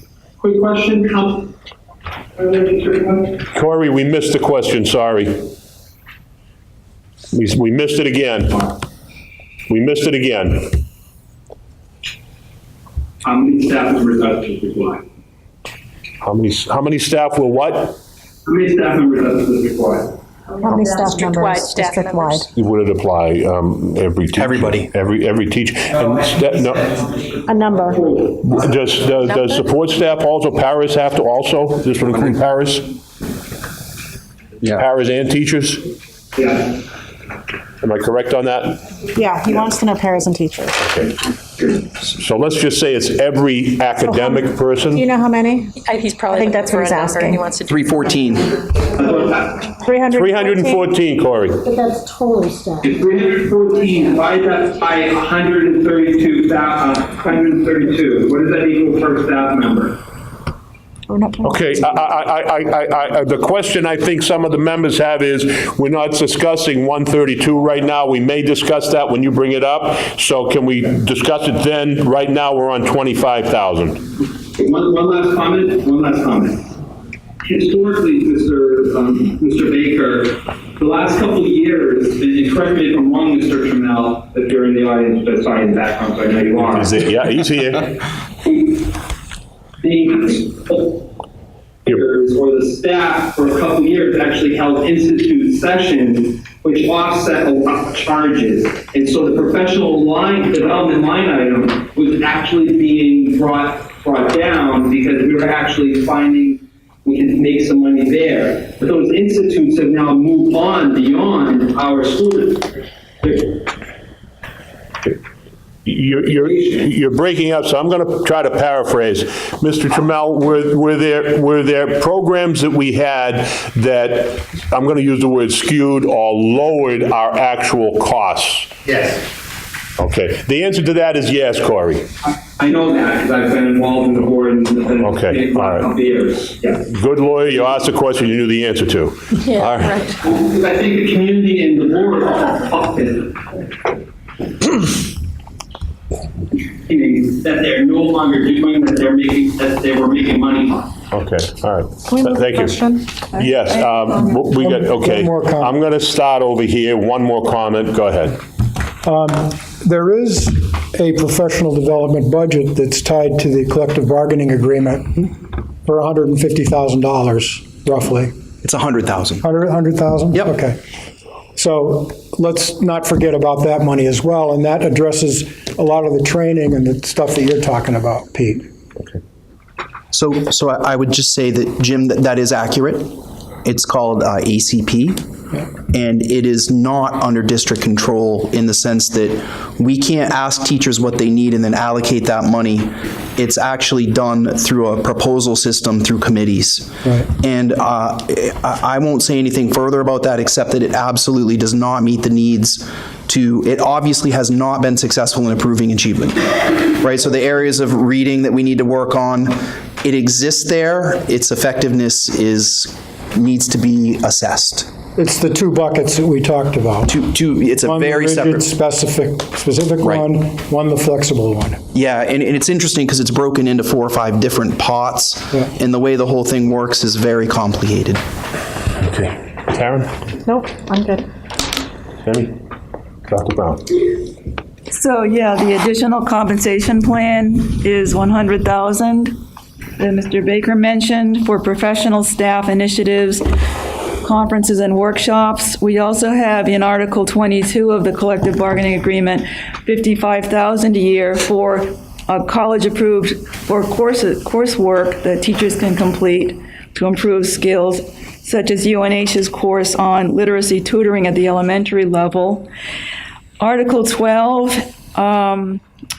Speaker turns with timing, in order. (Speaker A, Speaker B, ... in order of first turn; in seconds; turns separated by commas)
Speaker A: 0.4-1.5, Speaker A: 2.4-3.4, Speaker B: 3.5-5.5, Speaker B: 7.3-8.7, Speaker B: 9.7-10.8, Speaker A: 13.2-15.0, Speaker B: 16.2-18.0, Speaker A: 18.5-20.2, Speaker C: 20.6-22.5, Speaker D: 20.9-22.4, Speaker B: 22.5-27.2, Speaker E: 24.4-24.9, Speaker C: 27.5-28.0, Speaker A: 27.9-28.4, Speaker B: 28.4-32.9, Speaker D: 29.2-29.6, Speaker B: 34.6-35.9, Speaker A: 36.4-36.7, Speaker B: 37.8-38.8, Speaker C: 39.1-40.8, Speaker B: 40.8-41.2, Speaker B: 42.1-45.1, Speaker C: 44.0-45.7, Speaker D: 45.8-48.2, Speaker C: 46.3-47.5, Speaker E: 47.7-48.5, Speaker A: 49.0-49.7, Speaker C: 49.7-50.9, Speaker B: 50.1-51.7, Speaker C: 51.6-52.9, Speaker A: 52.8-60.0, Speaker C: 61.1-61.9, Speaker B: 61.4-74.1, Speaker A: 74.6-76.6, Speaker A: 77.4-86.9, Speaker B: 86.6-88.0, Speaker A: 89.8-91.1, Speaker A: 91.8-112.7, Speaker A: 113.2-113.6, Speaker B: 115.8-128.7, Speaker A: 116.4-116.8, Speaker B: 130.0-132.1, Speaker A: 132.6-136.8, Speaker B: 135.0-135.9, Speaker B: 136.9-140.1, Speaker D: 139.5-140.2, Speaker A: 140.2-143.3, Speaker A: 146.9-150.9, Speaker B: 151.1-158.4, Speaker C: 152.1-153.0, Speaker F: 153.4-154.5, Speaker G: 154.6-155.7, Speaker G: 159.0-165.3, Speaker G: 165.8-168.3, Speaker E: 168.6-169.5, Speaker G: 169.4-170.8, Speaker G: 171.6-178.7, Speaker E: 180.1-185.2, Speaker E: 185.9-214.9, Speaker G: 215.2-217.1, Speaker E: 217.1-218.7, Speaker G: 217.9-221.8, Speaker E: 220.0-220.3, Speaker E: 221.9-228.2, Speaker B: 229.0-230.1, Speaker C: 230.5-231.3, Speaker B: 232.2-232.6, Speaker B: 233.3-233.9, Speaker F: 234.9-239.4, Speaker F: 240.0-243.4, Speaker F: 244.2-262.7, Speaker F: 263.6-265.8